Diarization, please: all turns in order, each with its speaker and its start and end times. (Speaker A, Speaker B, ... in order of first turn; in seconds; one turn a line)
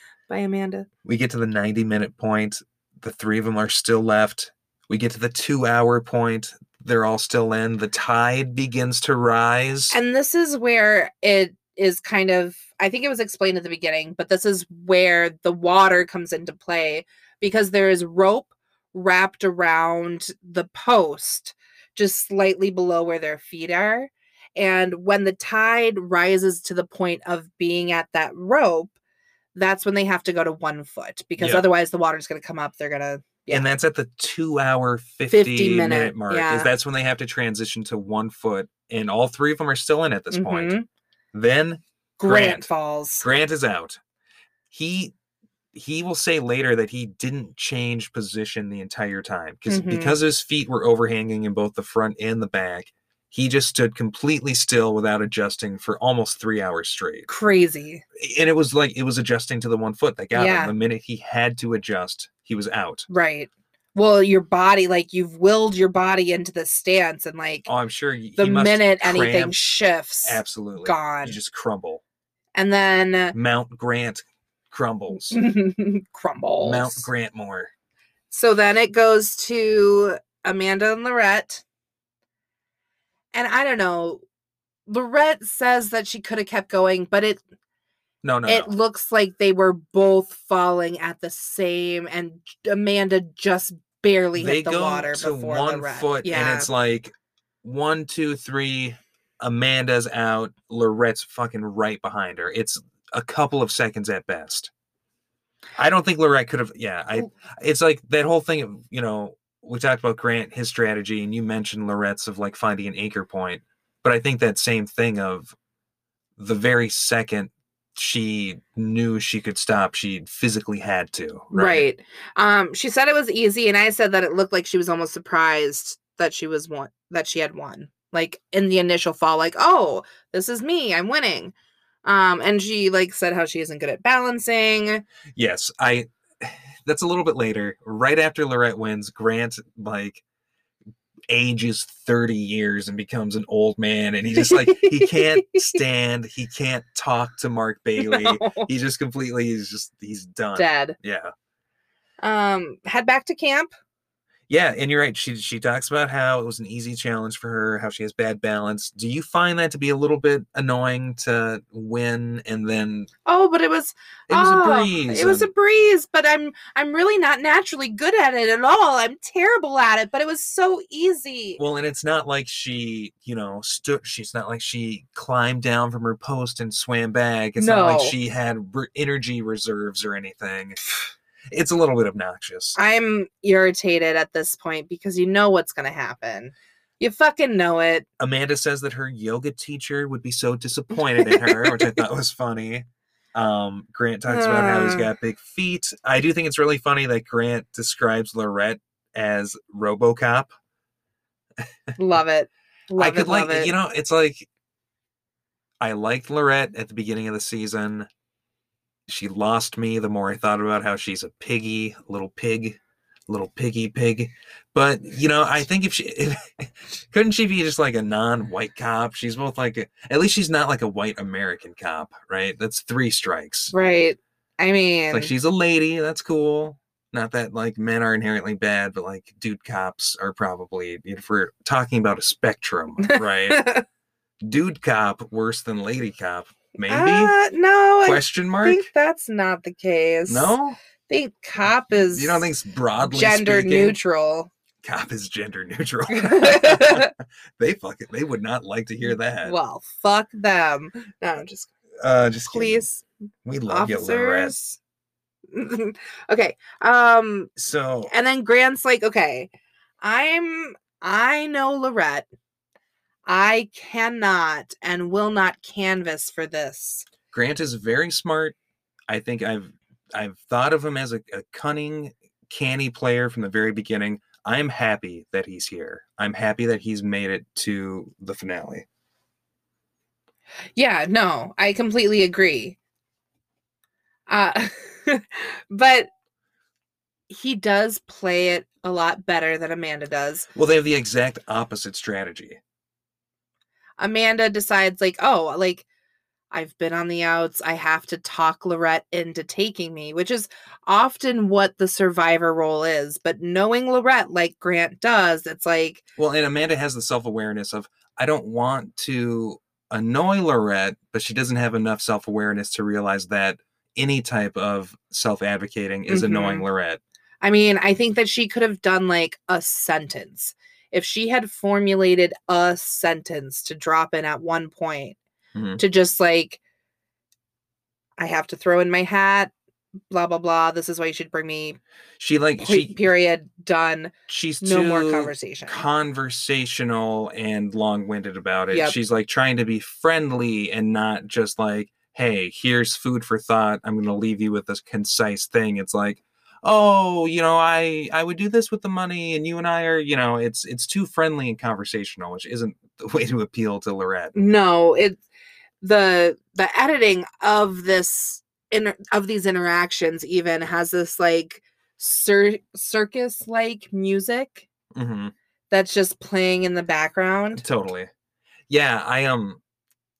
Speaker A: 0.3-0.9
Speaker B: 1.0-9.9
Speaker A: 9.9-28.9
Speaker A: 29.5-33.7
Speaker B: 31.4-31.6
Speaker B: 33.5-40.7
Speaker A: 35.3-36.7
Speaker A: 40.3-40.9
Speaker B: 41.3-42.7
Speaker A: 42.2-43.2
Speaker B: 43.2-44.0
Speaker B: 44.7-45.1
Speaker B: 45.7-57.3
Speaker A: 49.7-50.2
Speaker A: 57.3-58.0
Speaker B: 58.1-63.1
Speaker A: 60.3-60.7
Speaker A: 63.1-67.7
Speaker B: 67.7-69.6
Speaker A: 68.4-71.4
Speaker B: 70.2-72.0
Speaker A: 72.5-73.3
Speaker B: 73.3-75.4
Speaker A: 75.2-77.1
Speaker B: 76.6-77.7
Speaker A: 78.3-81.6
Speaker A: 83.3-84.2
Speaker A: 84.9-87.4
Speaker B: 88.2-88.7
Speaker A: 88.5-96.7
Speaker B: 94.3-104.7
Speaker B: 105.8-115.5
Speaker B: 116.4-121.8
Speaker A: 121.5-131.5
Speaker A: 132.0-135.0
Speaker B: 135.3-140.2
Speaker B: 141.3-151.3
Speaker A: 144.3-145.8
Speaker A: 148.0-148.7
Speaker A: 150.6-150.9
Speaker A: 152.2-153.7
Speaker B: 154.5-163.1
Speaker A: 163.2-171.6
Speaker B: 164.3-165.5
Speaker B: 171.6-180.8
Speaker A: 177.6-178.2
Speaker B: 181.5-182.8
Speaker A: 182.8-188.1
Speaker B: 188.2-200.5
Speaker A: 191.2-191.9
Speaker A: 194.3-195.1
Speaker A: 202.0-203.7
Speaker B: 203.0-204.5
Speaker B: 205.8-208.1
Speaker B: 209.1-223.7
Speaker A: 223.7-225.3
Speaker B: 225.1-233.6
Speaker A: 233.0-233.8
Speaker B: 234.4-237.3
Speaker A: 236.9-240.6
Speaker B: 238.0-238.9
Speaker B: 240.3-240.8
Speaker A: 241.1-242.5
Speaker B: 242.1-244.0
Speaker A: 243.0-244.5
Speaker B: 244.8-249.5
Speaker A: 246.1-247.1
Speaker A: 249.4-251.7
Speaker B: 252.0-252.8
Speaker A: 252.5-253.0
Speaker B: 253.4-254.6
Speaker A: 253.7-254.8
Speaker A: 255.5-257.5
Speaker B: 257.6-258.1
Speaker A: 258.1-262.3
Speaker A: 263.3-267.1
Speaker B: 267.3-268.6
Speaker B: 269.1-278.9
Speaker A: 280.8-282.8
Speaker A: 284.3-286.1
Speaker A: 287.3-290.5
Speaker B: 290.5-292.6
Speaker A: 294.0-295.8
Speaker A: 296.5-306.0
Speaker B: 306.2-317.0
Speaker A: 316.1-316.6
Speaker A: 317.4-325.2
Speaker B: 325.5-325.8
Speaker A: 325.8-326.6
Speaker A: 328.2-329.5
Speaker A: 330.1-331.8
Speaker B: 332.2-333.0
Speaker A: 332.6-335.8
Speaker B: 334.3-354.4
Speaker A: 338.7-338.9
Speaker A: 354.3-355.2
Speaker A: 355.8-364.7
Speaker B: 364.9-365.3
Speaker A: 365.7-367.6
Speaker B: 367.6-368.1
Speaker B: 368.7-369.6